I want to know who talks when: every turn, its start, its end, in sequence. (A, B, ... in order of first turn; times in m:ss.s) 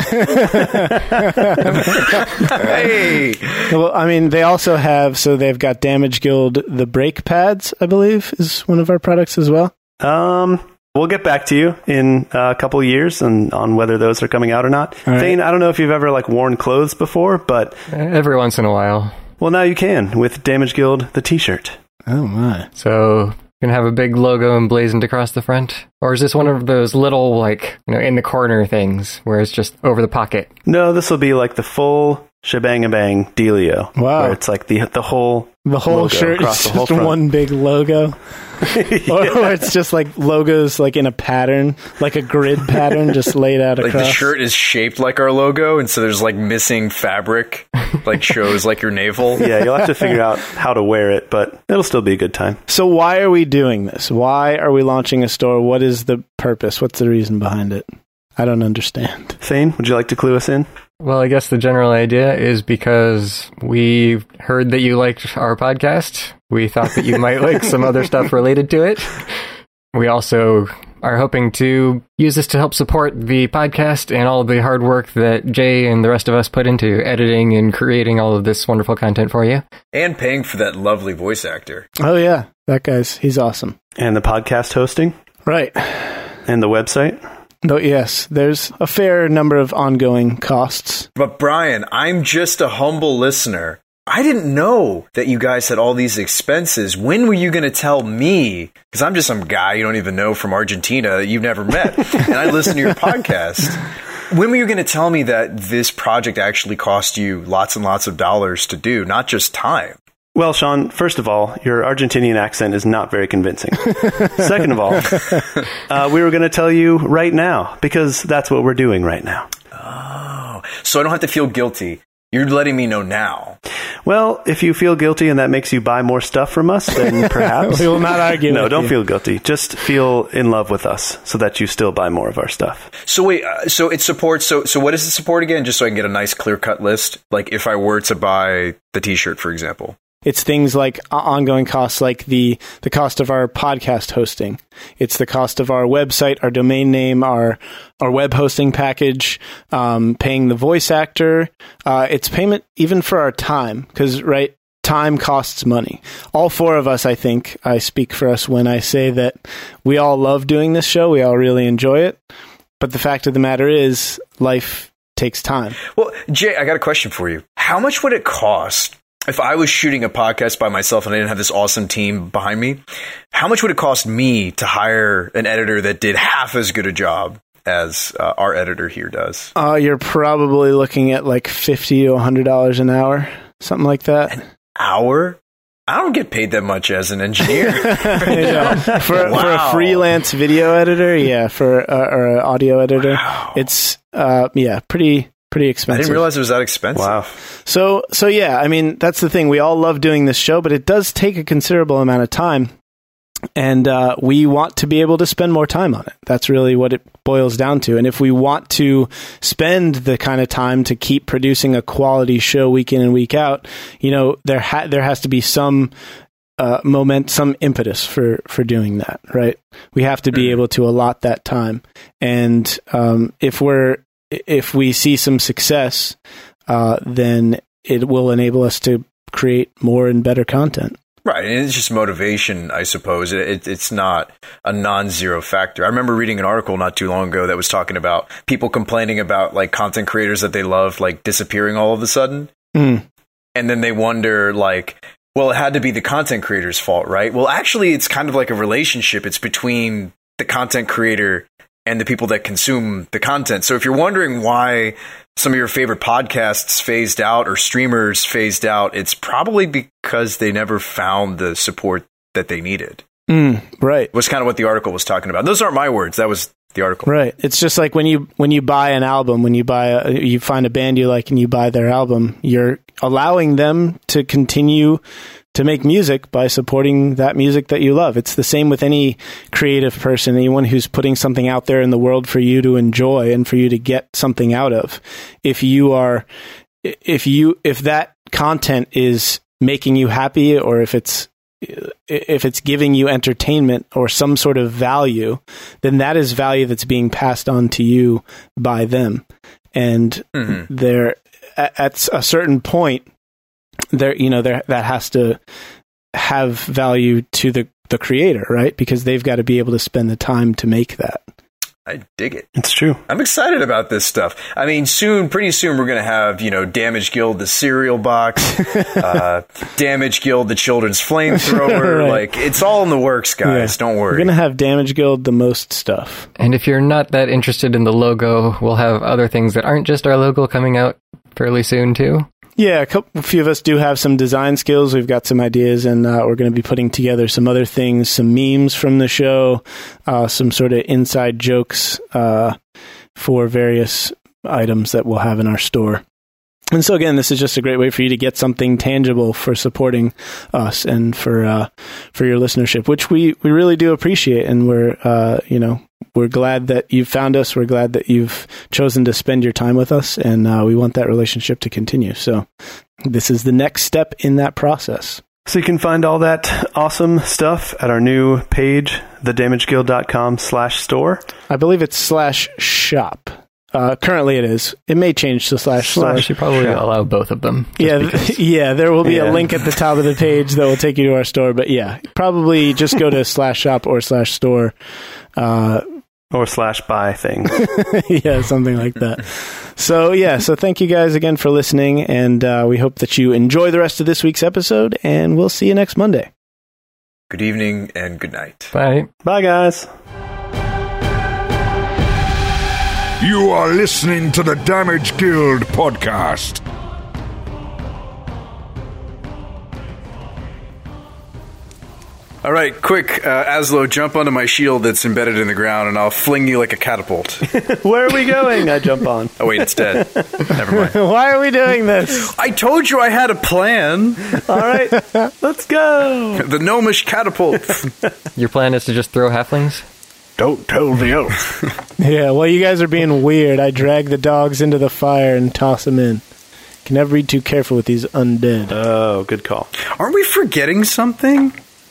0:00.2-0:01.9 A
0:01.8-0:03.7 B
0:03.7-0:09.7 A
0:10.0-0:17.8 C
0:15.1-0:15.4 A
0:17.9-0:19.2 D
0:19.4-0:21.8 C
0:22.1-0:22.7 A
0:22.8-0:30.5 D
0:30.7-0:37.2 C
0:34.0-0:34.4 A
0:35.7-0:38.2 A
0:38.6-0:39.6 C
0:39.1-0:44.3 A
0:43.8-0:49.5 B
0:49.4-0:52.6 C
0:52.7-0:57.9 A
0:58.4-0:59.4 A
0:59.4-1:00.7 C
1:01.0-1:09.2 D
1:09.9-1:19.6 D
1:19.9-1:21.9 B
1:22.0-1:23.8 A
1:24.0-1:25.1 C
1:25.5-1:26.1 A
1:26.5-1:27.2 C
1:27.6-1:31.1 A
1:31.2-1:50.0 B
1:50.4-1:59.5 C
1:59.7-2:03.6 B
2:04.0-2:12.9 C
2:07.7-2:08.9 A
2:13.1-2:20.0 B
2:20.2-2:42.2 A
2:42.8-2:45.8 A
2:45.9-2:59.5 B
2:59.6-3:04.4 A
3:04.8-3:10.1 B
3:07.8-3:16.2 A
3:08.7-3:09.2 C
3:13.1-3:13.6 B
3:15.9-3:17.2 B
3:17.0-3:17.3 C
3:17.7-3:22.7 A
3:23.6-3:35.9 A
3:36.6-3:46.2 A
3:46.7-3:51.0 A
3:51.2-4:02.5 B
4:02.8-4:03.0 A
4:03.6-4:23.0 B
4:23.3-4:24.1 A
4:24.1-4:27.1 B
4:27.1-4:35.0 A
4:35.5-4:46.3 A
4:46.8-5:03.1 A
5:03.9-5:05.4 A
5:06.1-5:11.2 A
5:11.9-5:12.5 B
5:12.6-5:13.0 C
5:13.1-5:24.3 B
5:21.5-5:22.2 A
5:23.4-5:26.3 A
5:26.4-5:32.3 D
5:32.6-5:42.6 A
5:43.2-5:46.0 A
5:46.7-6:02.5 A
6:03.0-6:05.2 A
6:05.5-6:11.2 C
6:11.5-6:16.3 A
6:15.9-6:16.8 C
6:16.0-6:18.3 D
6:17.8-6:24.8 A
6:19.0-6:19.5 C
6:25.4-6:25.8 A
6:26.3-6:27.6 C
6:27.6-6:36.3 A
6:37.3-6:38.7 B
6:38.7-6:39.1 D
6:39.2-6:39.9 C
6:43.2-6:46.6 E
6:52.4-6:57.5 B
6:57.5-7:00.5 C
6:59.4-7:01.0 B
7:00.7-7:02.3 A
7:02.2-7:04.4 B
7:04.4-7:06.5 C
7:06.4-7:07.9 B
7:08.4-7:09.8 D
7:10.4-7:11.3 C
7:12.0-7:16.2 A
7:16.8-7:18.8 A
7:18.7-7:19.7 C
7:19.9-7:21.6 B